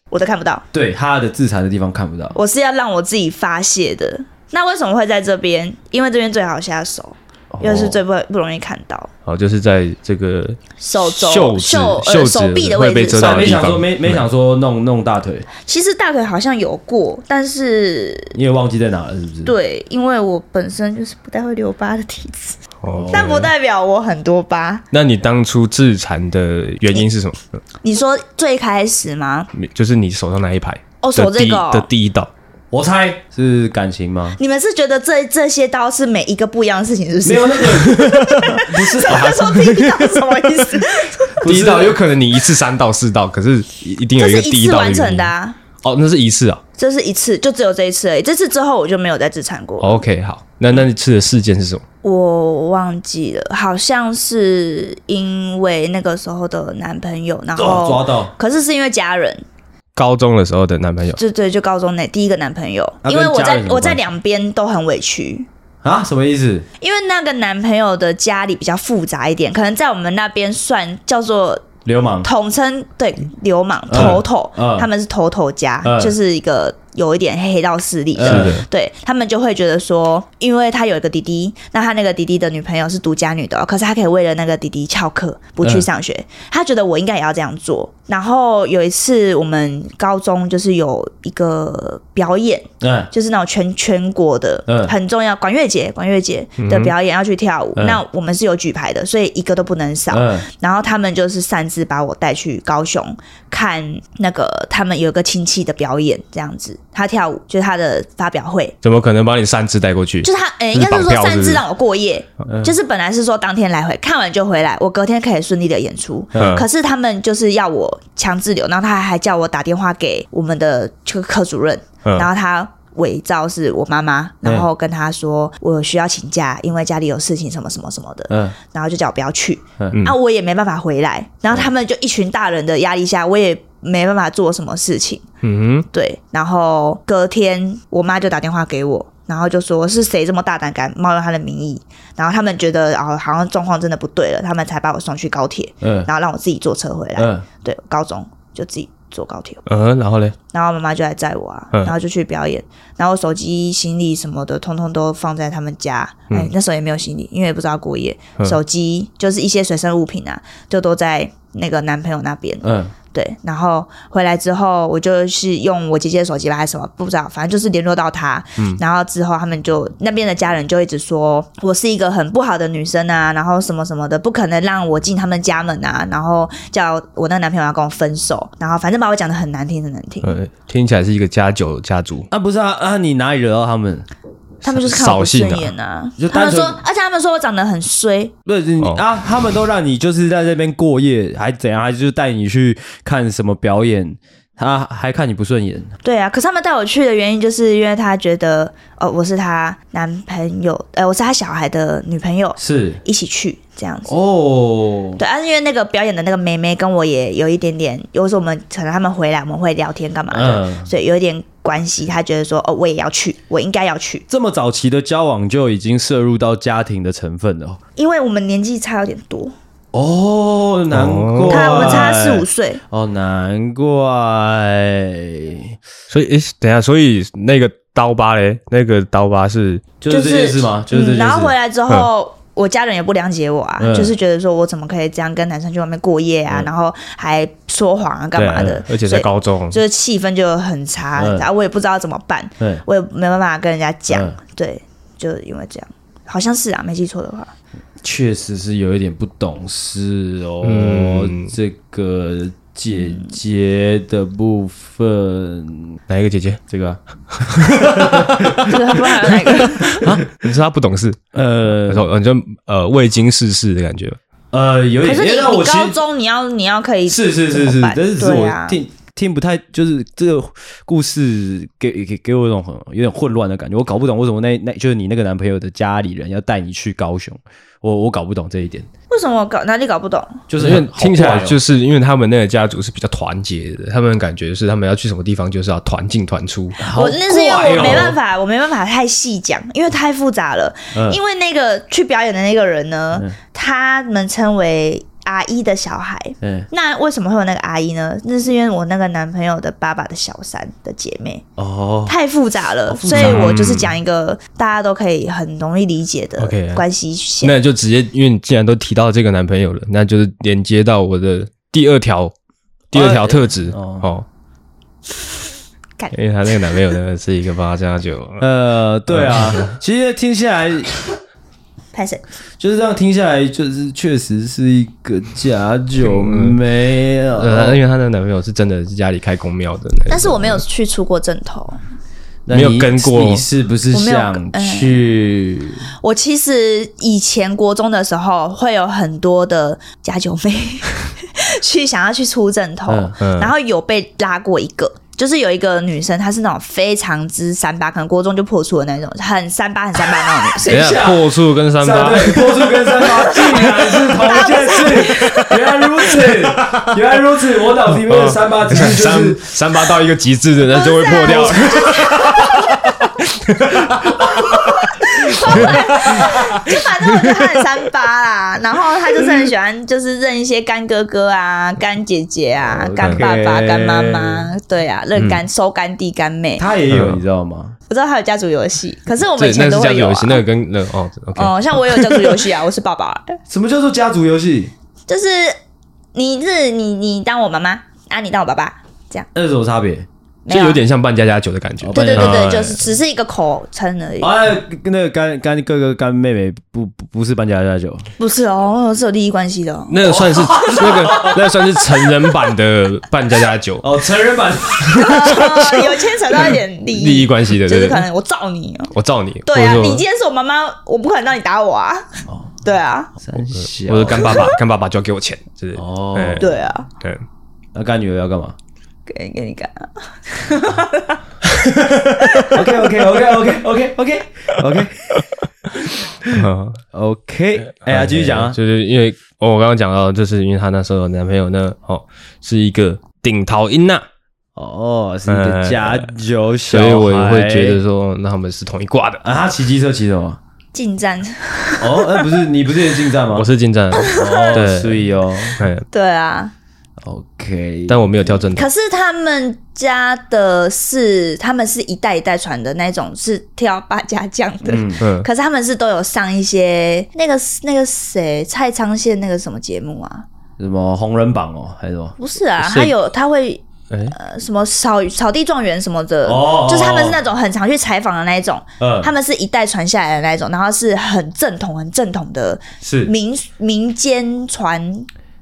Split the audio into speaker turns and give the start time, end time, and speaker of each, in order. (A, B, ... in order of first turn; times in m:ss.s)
0:00.1-0:00.6 A
0:00.7-0:02.4 B
0:02.3-0:09.1 A
0:07.5-0:08.0 B
0:09.2-0:14.2 C
0:10.8-0:13.6 A
0:13.2-0:15.5 B
0:15.6-0:18.4 A
0:18.3-0:19.5 B
0:19.4-0:24.8 A
0:22.8-0:23.5 C
0:22.9-0:23.4 B
0:24.9-0:27.6 C
0:27.8-0:29.5 A
0:29.5-0:32.3 C
0:31.0-0:31.9 A
0:32.7-0:34.4 B
0:34.4-0:41.4 A
0:37.2-0:39.4 B
0:38.0-0:38.5 C
0:39.0-0:40.8 C
0:41.4-0:42.0 B
0:41.4-0:46.6 C
0:44.2-0:45.6 A
0:46.8-0:50.0 A
0:49.8-0:51.8 C
0:52.0-0:59.4 A
0:57.6-0:58.3 B
1:00.0-1:01.2 C
1:01.2-1:05.5 A
1:03.0-1:04.0 B
1:05.8-1:06.6 B
1:06.8-1:11.7 A
1:11.8-1:12.3 B
1:12.2-1:48.8 A
1:13.9-1:14.9 B
1:15.8-1:16.1 B
1:18.1-1:18.6 B
1:18.2-1:18.6 C
1:32.8-1:33.1 B
1:34.7-1:34.9 B
1:36.6-1:36.9 C
1:37.8-1:38.0 B
1:40.1-1:40.5 B
1:48.8-1:51.6 C
1:50.2-2:15.2 A
1:52.5-1:52.7 B
1:56.4-1:56.6 C
2:08.3-2:08.6 B
2:15.4-2:15.9 C
2:15.9-2:29.6 A
2:25.8-2:26.1 B
2:27.2-2:27.4 B
2:29.6-2:30.4 C
2:30.5-3:00.4 A
2:42.6-2:42.9 B
3:00.2-3:02.3 C
3:02.3-3:04.1 B
3:04.6-3:08.3 A
3:04.6-3:05.7 C
3:06.2-3:06.8 B
3:08.4-3:15.9 B
3:16.0-3:24.1 A
3:22.6-3:23.0 B
3:24.0-3:25.2 B
3:25.2-3:34.2 A
3:30.3-3:30.9 B
3:34.3-3:37.8 B
3:38.0-3:39.5 A
3:39.9-3:45.7 B
3:40.9-3:42.1 C
3:41.5-3:42.8 A
3:46.1-3:49.8 C
3:50.0-3:51.5 B
3:50.1-4:07.5 A
3:53.8-3:54.1 B
3:58.4-3:59.8 C
3:58.4-3:58.8 B
4:01.2-4:01.5 B
4:04.1-4:04.4 B
4:08.0-4:16.0 B
4:10.6-4:11.5 C
4:13.0-4:13.3 A
4:16.1-4:16.6 C
4:16.7-4:20.2 B
4:17.3-4:18.6 C
4:18.6-4:20.0 A
4:19.9-4:24.2 C
4:21.3-4:22.1 B
4:24.5-4:26.0 B
4:25.0-4:28.8 A
4:27.1-4:38.9 B
4:39.1-4:40.4 A
4:40.5-4:41.6 B
4:40.6-4:46.8 C
4:46.8-4:48.2 B
4:46.9-5:01.4 A
4:47.8-4:48.1 C
4:50.9-4:51.2 B
4:56.4-4:56.7 B
5:01.6-5:02.1 B
5:02.1-5:07.5 A
5:02.9-5:03.5 B
5:03.1-5:04.0 C
5:06.4-5:06.8 C
5:07.4-5:12.3 C
5:12.9-5:14.3 C
5:12.9-5:14.1 B
5:16.1-5:18.4 C
5:18.4-5:20.9 B
5:19.1-5:19.7 C
5:21.9-5:22.2 A
5:22.6-5:27.8 B
5:26.0-5:26.6 C
5:27.4-5:30.6 C
5:30.1-5:31.8 A
5:32.4-5:35.9 B
5:32.5-5:33.4 C
5:33.9-5:35.0 A
5:36.0-5:51.1 A
5:42.9-5:43.1 B
5:43.2-5:43.5 C
5:50.6-5:53.7 C
5:50.6-5:59.5 B
5:53.6-5:55.2 A
5:55.0-5:55.6 C
5:56.3-5:57.0 C
5:58.0-6:07.7 C
6:00.8-6:02.7 A
6:01.8-6:02.4 B
6:03.8-6:04.7 B
6:04.4-6:16.7 A
6:05.4-6:05.7 B
6:12.6-6:14.5 B
6:15.1-6:15.4 C
6:16.6-6:17.8 B
6:16.9-6:17.2 C
6:17.9-6:20.4 A
6:19.4-6:22.5 C
6:21.4-6:23.4 A
6:23.5-6:24.7 B
6:25.1-6:25.6 A
6:26.1-6:29.3 A
6:29.3-6:30.1 B
6:30.4-6:30.8 A
6:30.5-6:32.8 C
6:31.8-6:32.5 B
6:31.9-6:34.3 A
6:34.2-6:38.1 B
6:38.2-6:40.2 A
6:39.9-6:43.8 C
6:40.0-6:41.4 B
6:40.8-6:41.3 A
6:43.8-6:45.8 B
6:44.9-6:48.9 A
6:45.0-6:45.7 C
6:46.9-6:48.0 C
6:48.9-6:50.0 C
6:49.4-6:53.1 A
6:52.3-6:52.6 B
6:53.2-6:54.5 B
6:53.6-6:57.2 C
6:54.2-6:54.5 A
6:55.7-6:56.6 B
6:56.4-6:56.9 A
6:57.7-6:58.6 B
6:59.1-7:01.2 A
7:01.4-7:02.4 C
7:02.2-7:02.6 A
7:02.4-7:05.2 B
7:06.1-7:08.6 B
7:06.3-7:06.8 C
7:07.8-7:14.0 C
7:14.6-7:17.8 B
7:15.3-7:16.1 C
7:16.7-7:19.2 C
7:19.2-7:20.4 B
7:20.7-7:22.5 A
7:21.8-7:23.5 B
7:23.3-7:25.0 C
7:23.9-7:24.6 A
7:24.1-7:25.6 B
7:25.6-7:25.8 C
7:25.9-7:26.5 A
7:27.0-7:28.4 B
7:27.9-7:28.7 C
7:28.6-7:40.2 A
7:34.6-7:35.0 B
7:35.0-7:35.3 C
7:40.6-7:42.2 B
7:42.2-7:55.1 A
7:42.6-7:42.9 C
7:43.9-7:44.1 C
7:46.2-7:47.2 B
7:48.8-7:49.1 B
7:52.8-7:53.1 B